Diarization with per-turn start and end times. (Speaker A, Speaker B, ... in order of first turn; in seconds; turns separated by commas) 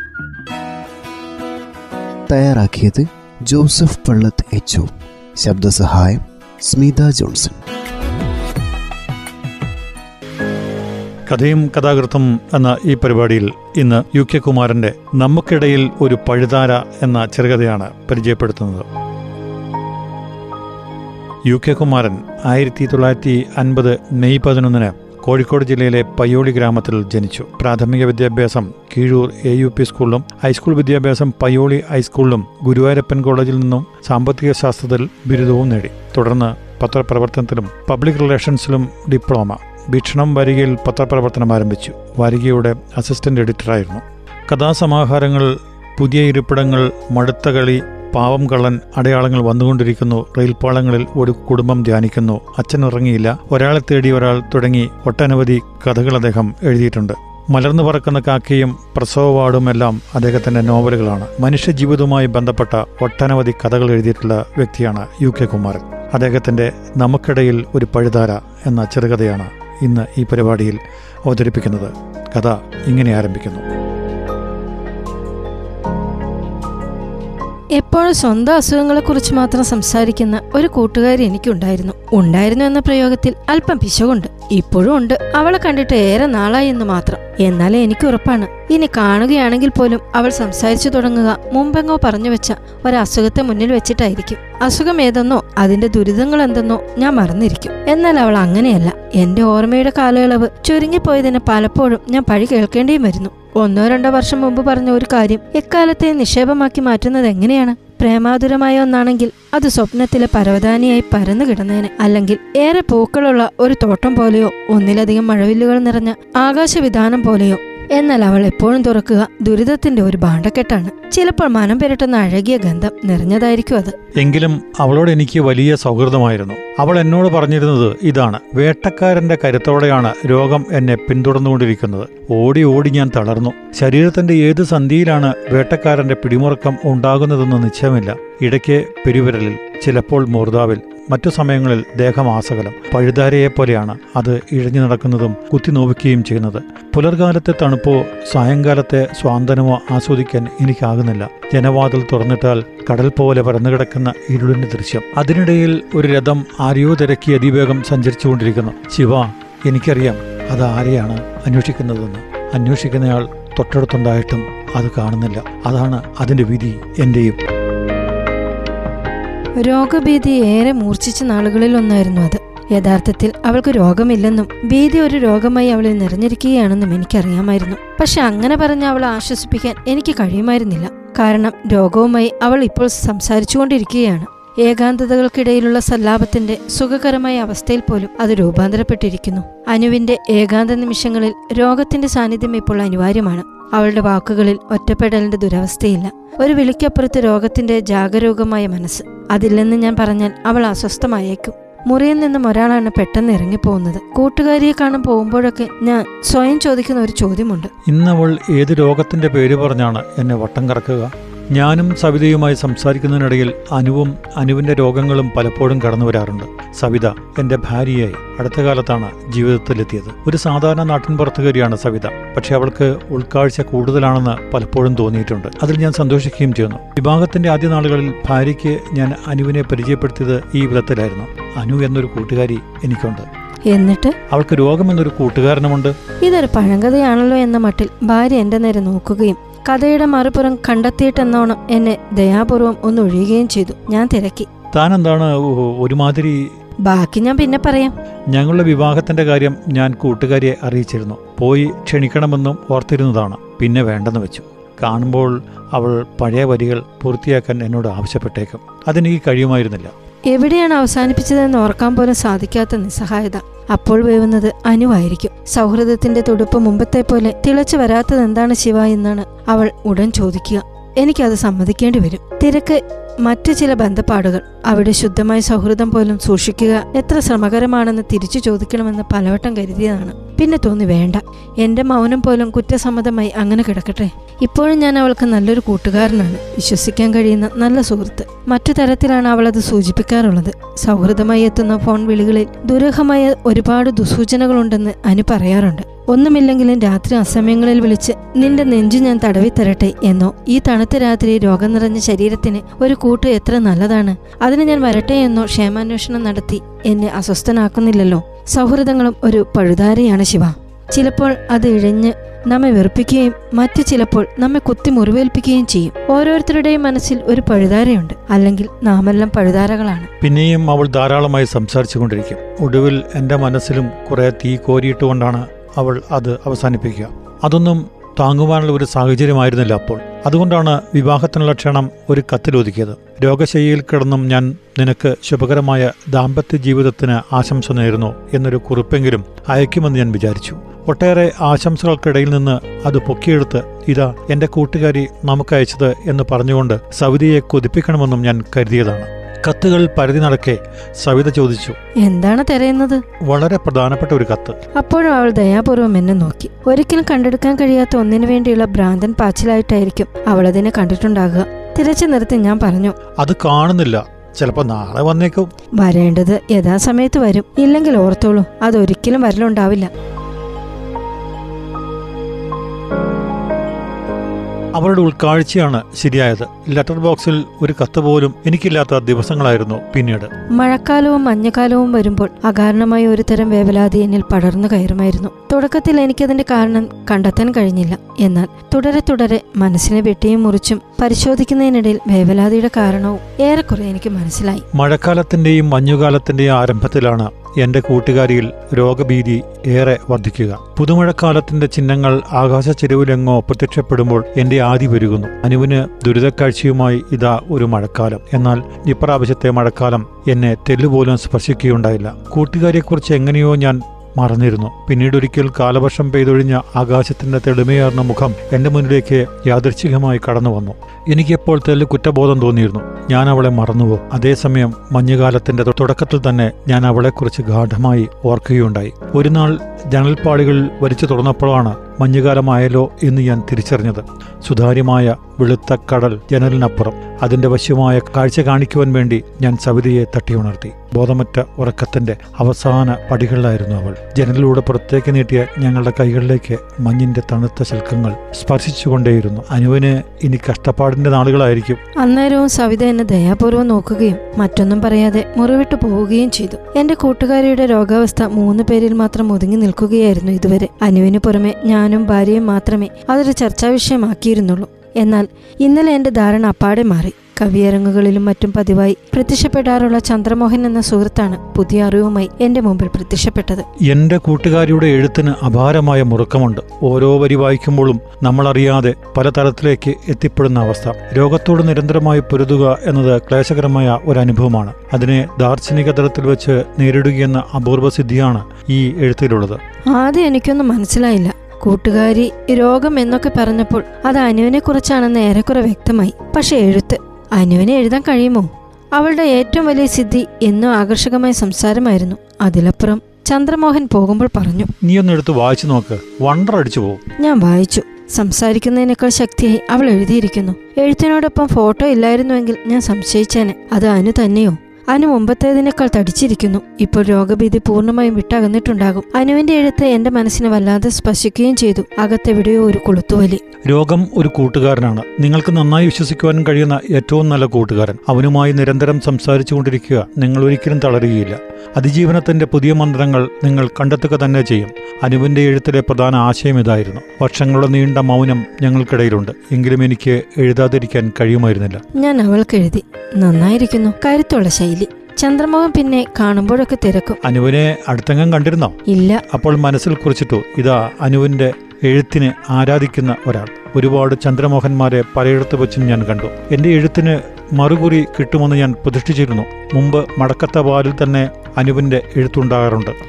Speaker A: 2.3-7.6, Speaker B: 11.3-18.8, Speaker B: 21.5-73.6, Speaker C: 77.8-123.9, Speaker B: 124.2-167.4, Speaker C: 169.6-207.7, Speaker B: 207.9-233.3, Speaker C: 233.7-234.2, Speaker B: 234.3-235.9, Speaker C: 236.2-244.5, Speaker B: 244.7-246.4, Speaker C: 246.8-247.9, Speaker B: 248.3-259.9, Speaker C: 260.3-320.1, Speaker B: 320.2-351.8, Speaker C: 352.0-353.0, Speaker B: 353.2-354.6, Speaker C: 354.7-362.9, Speaker B: 363.2-365.5, Speaker C: 365.8-369.9, Speaker B: 374.7-380.3, Speaker C: 380.5-394.6, Speaker B: 394.7-451.8, Speaker C: 452.0-473.6, Speaker B: 473.9-489.6, Speaker C: 489.9-504.7, Speaker B: 504.8-507.0, Speaker C: 507.2-523.4, Speaker B: 523.6-541.8, Speaker C: 542.0-547.2, Speaker B: 547.2-548.7, Speaker C: 548.9-549.2, Speaker B: 549.3-562.9